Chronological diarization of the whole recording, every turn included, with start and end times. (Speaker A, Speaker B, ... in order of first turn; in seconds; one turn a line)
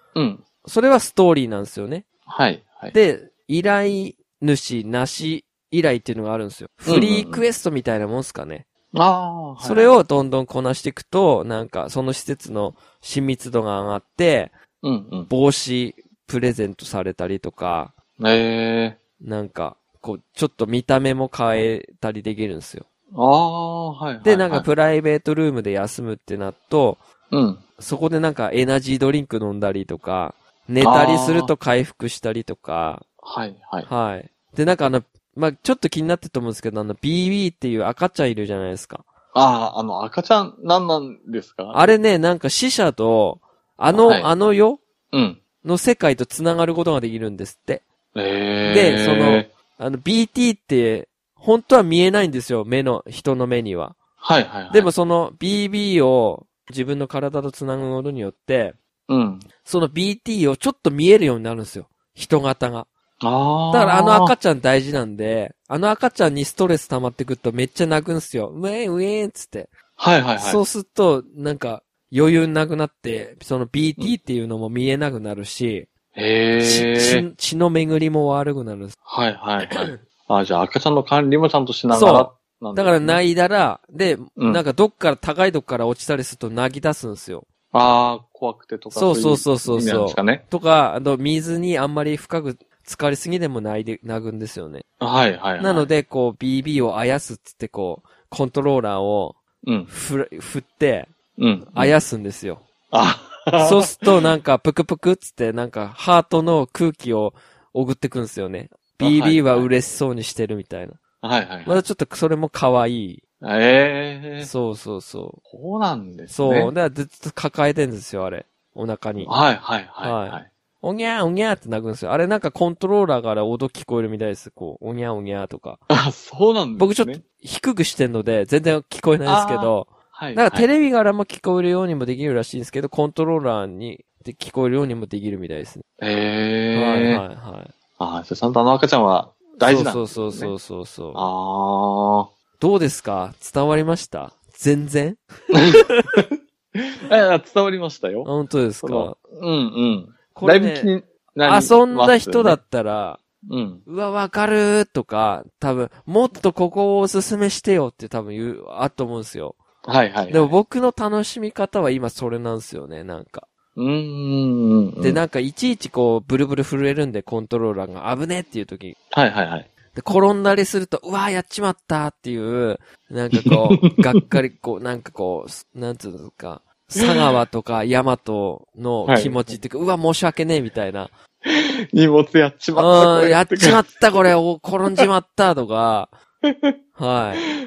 Speaker A: 0.1-0.4
Speaker B: 0.6-2.0
Speaker A: 2.3-2.9
Speaker B: 2.9-8.7
Speaker A: 6.8-7.4
Speaker A: 8.9-10.0
Speaker B: 9.6-14.5
Speaker A: 14.8-15.3
Speaker B: 15.3-17.9
Speaker A: 18.2-19.0
Speaker B: 19.2-22.8
Speaker A: 23.1-24.7
Speaker B: 24.2-27.0
Speaker A: 27.3-27.6
Speaker B: 27.8-33.0
Speaker A: 30.8-31.5
Speaker A: 33.2-33.9
Speaker B: 33.8-39.0
Speaker A: 39.3-41.9
Speaker B: 41.7-44.8
Speaker A: 43.9-44.3
Speaker A: 45.1-45.4
Speaker B: 45.6-47.8
Speaker A: 48.1-49.5
Speaker B: 48.6-54.0
Speaker A: 54.2-54.9
Speaker B: 54.7-58.8
Speaker A: 59.1-59.5
Speaker B: 59.6-62.9
Speaker A: 63.2-64.3
Speaker B: 63.7-69.7
Speaker A: 70.0-70.6
Speaker B: 70.4-75.9
Speaker A: 76.1-77.2
Speaker B: 76.6-79.0
Speaker A: 79.1-83.2
Speaker B: 79.6-80.0
Speaker B: 81.9-87.5
Speaker A: 84.4-84.6
Speaker A: 87.7-90.4
Speaker B: 88.9-94.8
Speaker A: 95.0-95.9
Speaker B: 95.6-101.1
Speaker A: 99.6-99.9
Speaker A: 101.4-101.9
Speaker B: 101.7-102.6
Speaker A: 102.9-104.1
Speaker B: 103.5-111.0
Speaker A: 109.0-109.7
Speaker A: 111.2-111.8
Speaker B: 111.7-113.2
Speaker A: 113.4-114.5
Speaker B: 114.4-115.4
Speaker A: 115.5-116.7
Speaker B: 116.3-119.3
Speaker A: 119.2-120.5
Speaker B: 120.0-125.8
Speaker A: 125.9-127.2
Speaker B: 126.8-135.8
Speaker A: 129.2-130.7
Speaker A: 136.0-137.2
Speaker B: 136.7-137.7
Speaker A: 138.0-140.5
Speaker B: 139.6-141.3
Speaker A: 141.1-142.3
Speaker B: 142.6-146.1
Speaker A: 145.5-146.2
Speaker A: 146.8-148.3
Speaker B: 148.2-149.2
Speaker A: 148.8-152.6
Speaker B: 150.3-150.9
Speaker B: 151.4-153.2
Speaker A: 153.4-153.8
Speaker B: 153.9-159.6
Speaker A: 159.8-160.5
Speaker B: 160.3-163.5
Speaker A: 163.8-165.2
Speaker B: 165.0-169.0
Speaker A: 169.1-169.7
Speaker B: 169.9-181.1
Speaker A: 173.4-173.9
Speaker A: 179.1-179.5
Speaker A: 181.4-183.8
Speaker B: 182.7-186.1
Speaker A: 186.4-186.7
Speaker B: 186.9-187.5